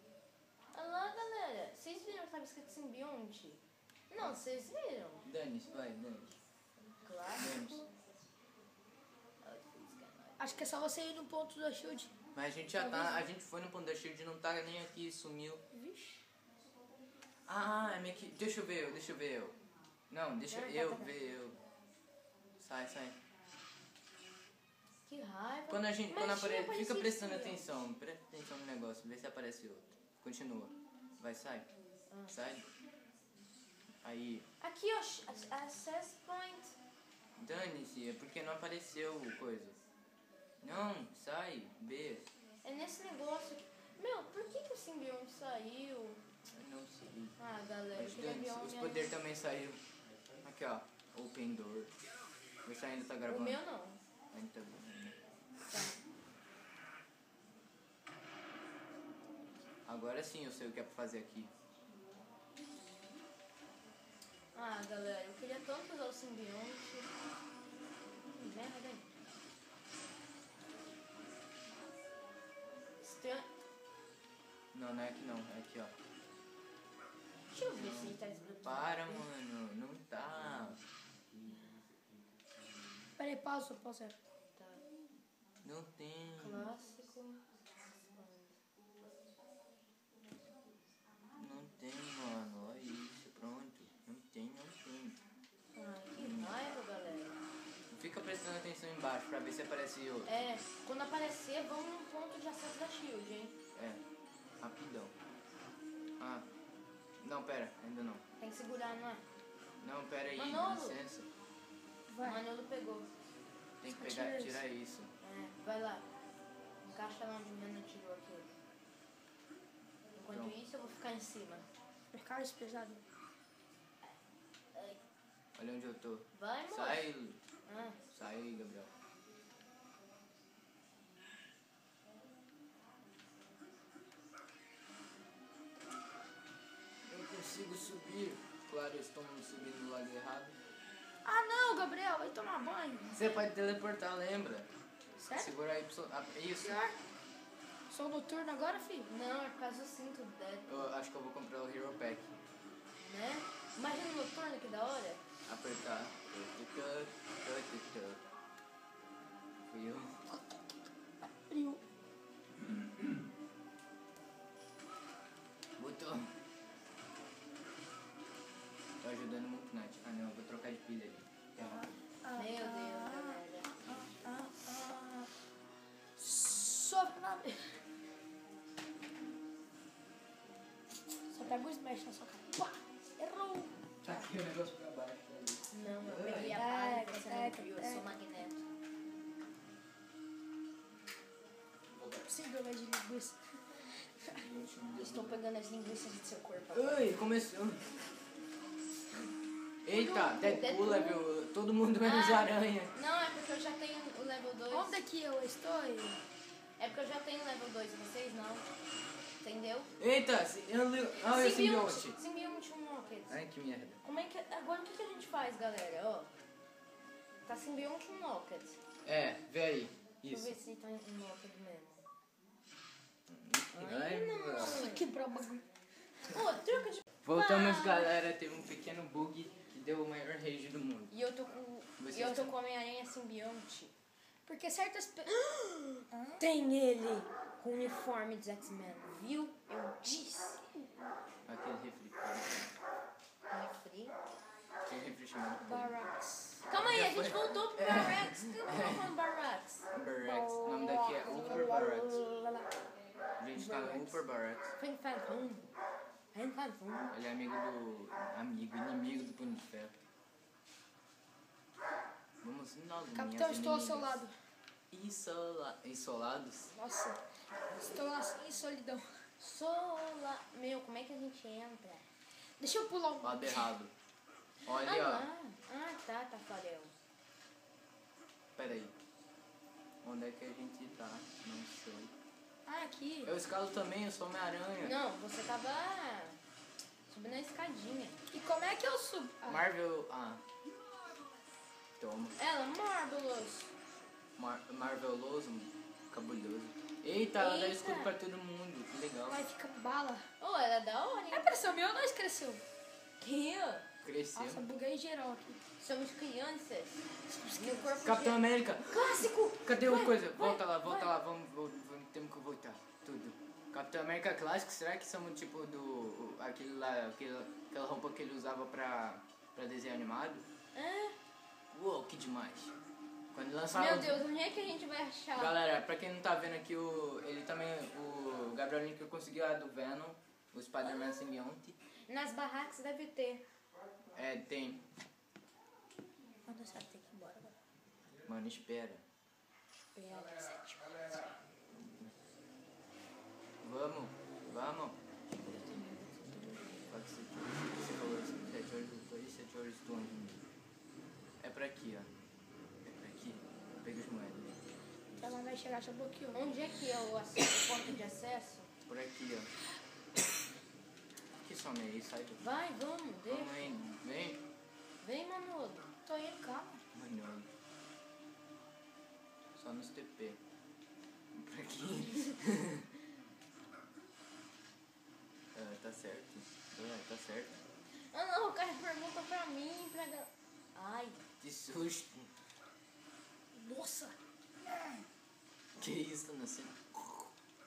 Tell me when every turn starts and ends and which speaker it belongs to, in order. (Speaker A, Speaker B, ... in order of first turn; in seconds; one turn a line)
Speaker A: 0.7-5.3
Speaker B: 5.2-6.4
Speaker A: 7.0-7.8
Speaker B: 7.4-7.8
Speaker A: 9.4-10.4
Speaker C: 10.4-12.1
Speaker B: 12.3-15.6
Speaker C: 12.8-13.3
Speaker C: 15.7-16.2
Speaker B: 17.5-19.6
Speaker B: 20.1-21.6
Speaker A: 20.5-21.1
Speaker B: 22.6-23.2
Speaker A: 25.1-27.6
Speaker B: 25.7-31.7
Speaker A: 32.1-32.4
Speaker B: 32.3-32.7
Speaker B: 34.0-34.5
Speaker A: 34.6-36.7
Speaker B: 37.4-39.8
Speaker B: 40.6-42.3
Speaker A: 42.6-46.2
Speaker B: 46.5-47.4
Speaker A: 47.4-49.1
Speaker B: 47.9-49.8
Speaker B: 50.4-51.9
Speaker B: 52.6-53.6
Speaker A: 53.3-54.0
Speaker B: 54.3-55.2
Speaker A: 55.7-56.0
Speaker B: 59.9-61.5
Speaker A: 64.5-67.1
Speaker A: 68.3-69.1
Speaker A: 73.0-73.5
Speaker B: 74.7-75.9
Speaker A: 77.5-79.3
Speaker B: 77.7-80.8
Speaker C: 83.2-84.2
Speaker A: 84.5-84.8
Speaker B: 85.6-86.7
Speaker A: 86.4-87.4
Speaker A: 88.0-88.6
Speaker B: 91.4-95.2
Speaker A: 95.7-97.4
Speaker B: 96.2-96.6
Speaker B: 97.9-100.3
Speaker A: 100.2-103.6
Speaker B: 103.8-104.0
Speaker B: 104.6-105.1
Speaker B: 106.2-106.5
Speaker B: 107.2-108.2
Speaker A: 108.4-109.2
Speaker B: 109.8-111.3
Speaker A: 110.3-111.0
Speaker C: 112.1-112.4
Speaker A: 112.2-113.1
Speaker B: 113.8-115.1
Speaker C: 113.9-114.6
Speaker A: 115.2-116.1
Speaker A: 116.8-118.5
Speaker A: 120.2-121.7
Speaker B: 120.3-120.5
Speaker C: 122.1-123.0
Speaker A: 124.7-125.0
Speaker B: 125.5-127.4
Speaker A: 126.3-127.1
Speaker A: 127.7-128.0
Speaker B: 128.1-128.9
Speaker B: 137.1-140.6
Speaker C: 141.2-143.2
Speaker B: 143.1-144.7
Speaker C: 145.2-145.5
Speaker B: 145.3-146.8
Speaker C: 146.6-146.9
Speaker C: 147.9-149.1
Speaker A: 149.1-150.8
Speaker B: 150.7-152.4
Speaker A: 153.0-155.2
Speaker B: 155.5-158.2
Speaker B: 159.7-160.2
Speaker C: 160.3-160.8
Speaker C: 161.3-161.8
Speaker B: 162.6-163.0
Speaker B: 165.8-166.3
Speaker B: 169.0-171.9
Speaker C: 171.6-175.3
Speaker A: 172.3-174.2
Speaker C: 176.2-177.8
Speaker C: 181.3-184.3
Speaker B: 184.0-186.6
Speaker A: 185.7-188.6
Speaker C: 186.5-188.1
Speaker B: 191.9-192.3
Speaker C: 192.2-194.5
Speaker B: 194.3-195.4
Speaker A: 195.0-197.2
Speaker B: 196.7-197.9
Speaker B: 199.9-202.9
Speaker C: 199.9-200.6
Speaker A: 200.3-201.2
Speaker A: 202.0-205.0
Speaker C: 204.7-206.2
Speaker A: 206.8-208.7
Speaker A: 209.4-209.9
Speaker B: 210.0-212.2
Speaker A: 211.2-213.4
Speaker B: 213.3-214.0
Speaker A: 214.0-216.3
Speaker A: 217.5-218.8
Speaker B: 219.1-220.6
Speaker A: 220.2-222.0
Speaker B: 223.3-224.9
Speaker A: 223.8-225.1
Speaker C: 224.5-225.7
Speaker A: 226.3-228.1
Speaker B: 227.2-231.1
Speaker A: 231.1-233.9
Speaker B: 232.0-232.5
Speaker C: 234.5-235.3
Speaker A: 235.3-240.4
Speaker C: 236.1-236.4
Speaker C: 240.0-240.8
Speaker B: 241.5-242.7
Speaker A: 243.5-244.2
Speaker B: 244.9-245.9
Speaker C: 245.6-246.6
Speaker A: 246.7-249.9
Speaker B: 246.7-249.1
Speaker B: 249.9-252.2
Speaker C: 250.2-252.7
Speaker B: 253.4-254.7
Speaker A: 253.6-254.2
Speaker C: 253.7-254.0
Speaker A: 254.8-255.7
Speaker A: 256.3-257.1
Speaker B: 257.1-260.0
Speaker B: 262.4-264.2
Speaker C: 263.1-264.3
Speaker B: 264.9-266.7
Speaker C: 266.7-267.2
Speaker C: 267.8-269.2
Speaker A: 269.4-272.1
Speaker C: 272.6-273.7
Speaker B: 273.2-273.9
Speaker B: 274.6-275.3
Speaker A: 274.7-276.9
Speaker B: 278.6-278.9
Speaker B: 280.0-282.1
Speaker C: 282.7-283.3
Speaker B: 283.2-285.0
Speaker A: 284.8-286.4
Speaker A: 287.1-288.2
Speaker C: 288.3-289.6
Speaker B: 289.4-290.4
Speaker B: 292.0-292.4
Speaker A: 292.4-293.7
Speaker B: 294.4-299.4
Speaker A: 297.4-298.1
Speaker C: 299.3-300.3
Speaker A: 300.4-301.7
Speaker C: 301.3-302.6
Speaker A: 303.2-303.9
Speaker B: 304.0-304.6
Speaker C: 304.4-305.6
Speaker A: 305.8-311.1
Speaker C: 307.3-308.1
Speaker B: 308.0-320.5
Speaker C: 309.0-309.3
Speaker A: 320.7-321.2
Speaker B: 321.7-322.8
Speaker B: 323.3-324.2
Speaker A: 323.7-325.6
Speaker B: 325.4-331.8
Speaker A: 332.1-333.4
Speaker B: 334.1-334.8
Speaker C: 336.5-337.6
Speaker B: 338.2-339.0
Speaker C: 339.9-341.3
Speaker B: 341.7-342.1
Speaker B: 343.6-345.0
Speaker C: 345.7-346.6
Speaker B: 346.9-350.5
Speaker B: 351.4-352.1
Speaker B: 352.8-354.6
Speaker C: 355.2-356.5
Speaker A: 356.3-358.7
Speaker B: 358.9-359.5
Speaker B: 361.4-362.4
Speaker A: 362.4-363.8
Speaker B: 363.3-364.4
Speaker A: 365.0-365.9
Speaker C: 366.1-366.8
Speaker B: 366.9-367.5
Speaker B: 369.6-370.4
Speaker B: 371.3-372.9
Speaker B: 375.5-377.6
Speaker A: 378.1-381.2
Speaker B: 381.4-382.3
Speaker C: 383.5-384.2
Speaker C: 384.7-385.0
Speaker B: 385.8-387.3